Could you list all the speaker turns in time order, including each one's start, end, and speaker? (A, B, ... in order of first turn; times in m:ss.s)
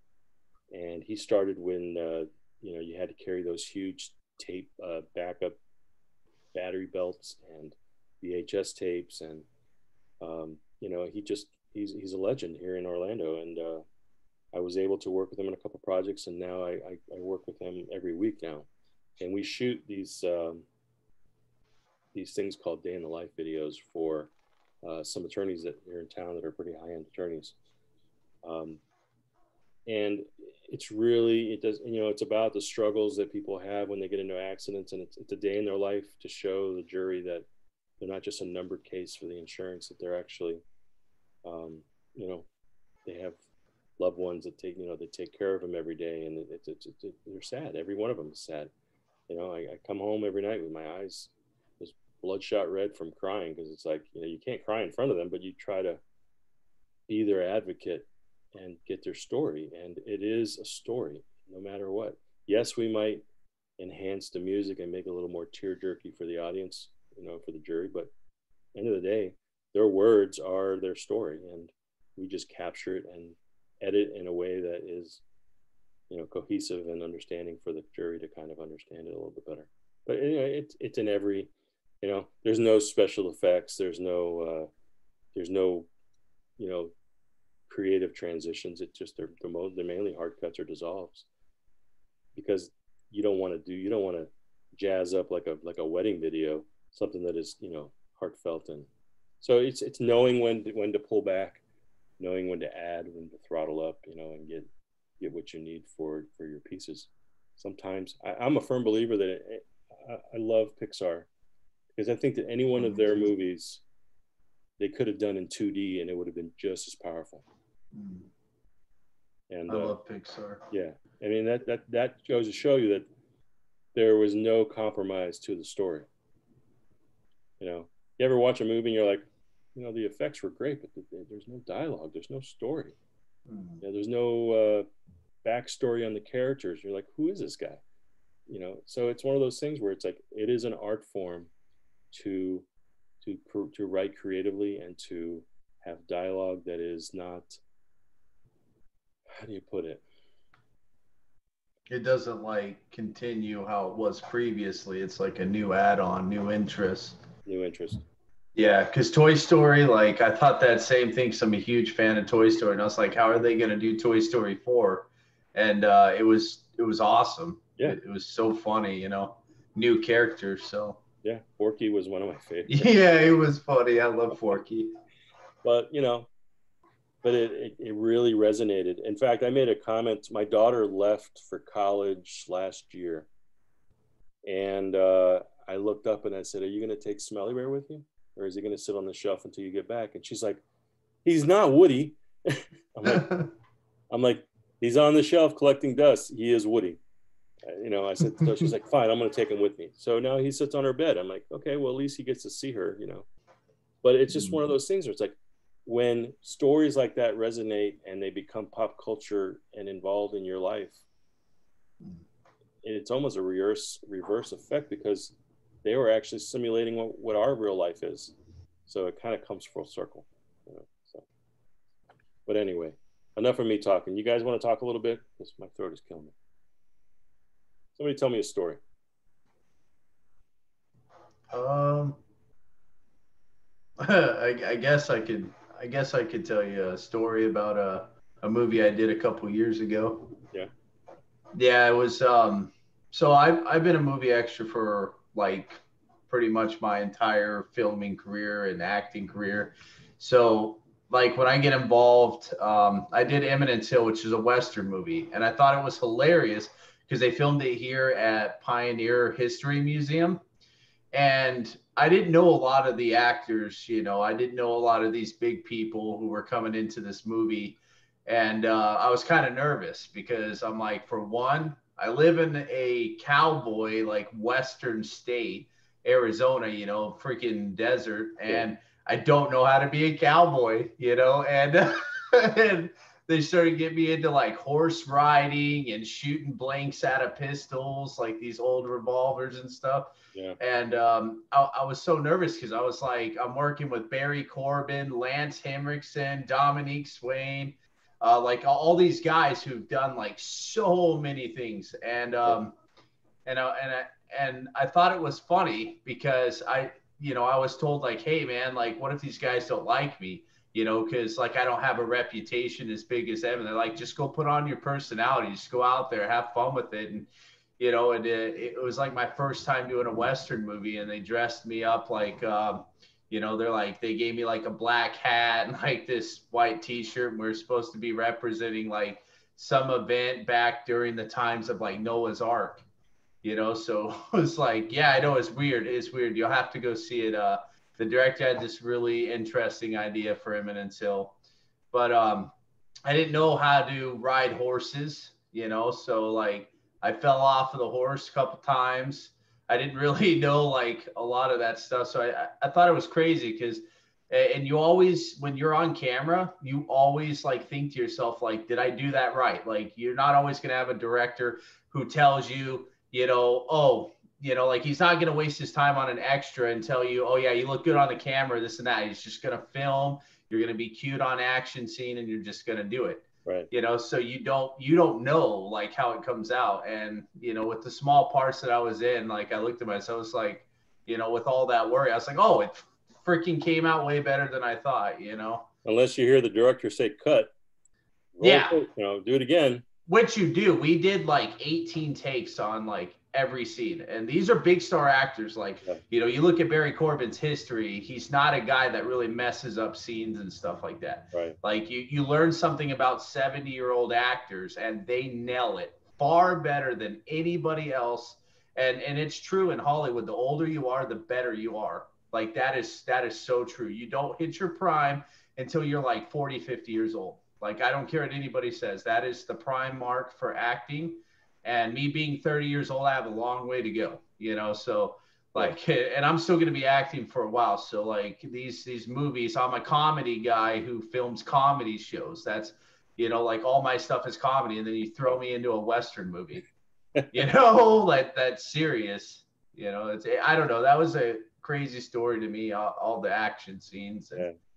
0:00.7-0:05.6 A
0:06.5-0:09.4 A
0:10.2-0:13.8 A
0:14.5-0:18.7 A
0:19.2-0:20.6 A
0:22.1-0:24.3 A
0:24.8-0:27.6 A
0:28.4-0:28.8 A
0:29.9-0:37.4 A
0:38.0-0:40.6 A
0:41.4-0:42.5 A
0:43.0-0:43.4 A
0:44.0-0:48.7 A
0:49.3-0:56.0 A
0:57.1-1:03.2 A
1:03.8-1:08.1 A
1:08.7-1:15.2 A
1:16.1-1:21.5 A
1:22.0-1:24.7 A
1:25.3-1:25.9 A
1:26.6-1:26.9 A
1:27.7-1:31.2 A
1:32.3-1:38.9 A
1:39.4-1:41.6 A
1:42.2-1:44.7 A
1:45.2-1:51.3 A
1:51.9-1:53.8 A
1:52.8-1:53.3 B
1:54.8-1:57.4 A
1:57.9-1:58.3 B
1:59.5-1:59.9 A
1:59.7-2:00.6 B
2:00.7-2:03.1 A
2:03.9-2:06.1 A
2:07.6-2:13.0 A
2:13.5-2:13.8 B
2:13.8-2:14.9 A
2:15.4-2:17.8 A
2:18.5-2:21.5 A
2:22.1-2:22.6 A
2:23.2-2:27.6 A
2:29.4-2:30.0 A
2:31.9-2:37.2 B
2:37.4-2:38.0 A
2:38.6-2:51.0 B
2:51.2-2:52.9 A
2:52.7-2:55.0 B
2:55.6-2:56.3 A
2:57.2-3:03.3 A
3:04.4-3:10.6 A
3:11.2-3:13.4 A
3:13.0-3:13.5 B
3:14.1-3:17.0 A
3:17.6-3:23.3 A
3:24.0-3:31.0 A
3:24.3-3:24.6 B
3:32.8-3:38.3 A
3:38.9-3:41.2 A
3:42.4-3:46.3 A
3:48.0-3:48.8 A
3:51.5-3:52.2 B
3:54.0-4:00.4 B
4:01.6-4:20.4 B
4:21.1-5:02.8 B
5:03.4-5:32.8 B
5:33.4-5:41.4 B
5:41.9-5:42.5 B
5:43.0-6:25.7 B
6:13.4-6:13.7 A
6:25.8-6:27.5 A
6:28.4-6:29.8 A
6:28.4-6:28.8 B
6:30.1-7:16.7 B
6:41.3-6:41.6 A
7:17.3-7:24.4 B